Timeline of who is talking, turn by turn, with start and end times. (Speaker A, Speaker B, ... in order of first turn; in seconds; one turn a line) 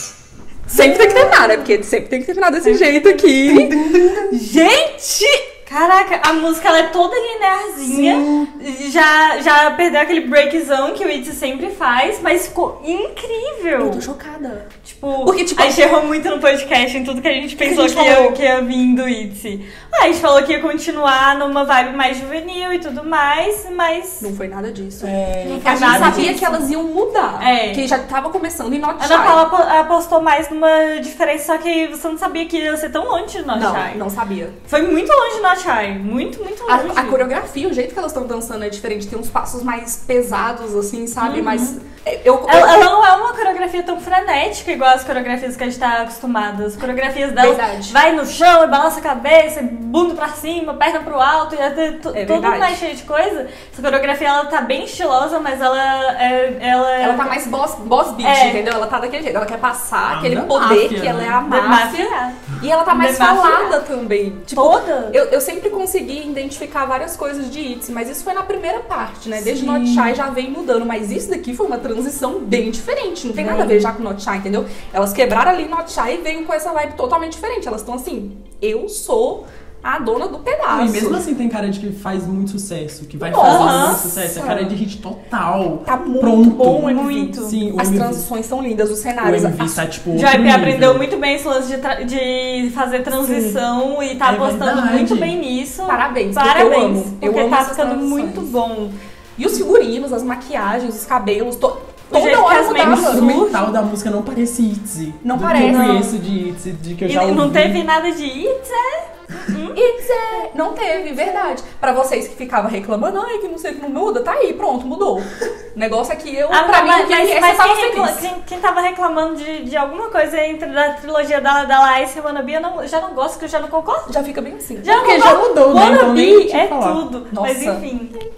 Speaker A: 0.7-3.8
Speaker B: 0.7-1.7
Speaker B: 2.6-3.6
Speaker C: 3.4-4.5
Speaker B: 4.3-14.0
Speaker C: 7.8-8.5
Speaker A: 13.8-14.7
Speaker B: 14.8-24.3
Speaker A: 15.2-15.8
Speaker A: 17.6-18.4
Speaker A: 24.2-29.5
Speaker C: 25.0-26.4
Speaker B: 25.5-26.6
Speaker B: 27.4-27.9
Speaker B: 29.0-34.0
Speaker A: 33.5-34.5
Speaker B: 34.7-37.2
Speaker A: 36.7-42.9
Speaker B: 41.2-41.8
Speaker B: 42.5-57.3
Speaker A: 47.4-48.0
Speaker A: 52.1-52.8
Speaker A: 57.0-81.3
Speaker B: 58.2-58.6
Speaker C: 60.1-61.4
Speaker B: 61.5-63.8
Speaker B: 64.5-65.2
Speaker C: 69.4-70.2
Speaker B: 73.3-73.9
Speaker C: 80.7-86.9
Speaker A: 83.2-84.8
Speaker B: 83.4-84.0
Speaker A: 85.8-89.8
Speaker B: 86.8-87.6
Speaker C: 87.4-88.3
Speaker C: 89.2-91.0
Speaker B: 90.1-99.0
Speaker A: 93.1-93.6
Speaker C: 94.2-95.4
Speaker A: 95.9-98.5
Speaker A: 99.4-103.5
Speaker B: 102.1-103.7
Speaker C: 102.7-107.8
Speaker A: 105.2-106.1
Speaker B: 105.5-106.1
Speaker B: 107.1-109.8
Speaker A: 109.7-118.3
Speaker B: 116.5-124.1
Speaker A: 124.1-125.0
Speaker B: 124.8-128.1
Speaker C: 124.8-127.0
Speaker A: 127.3-127.8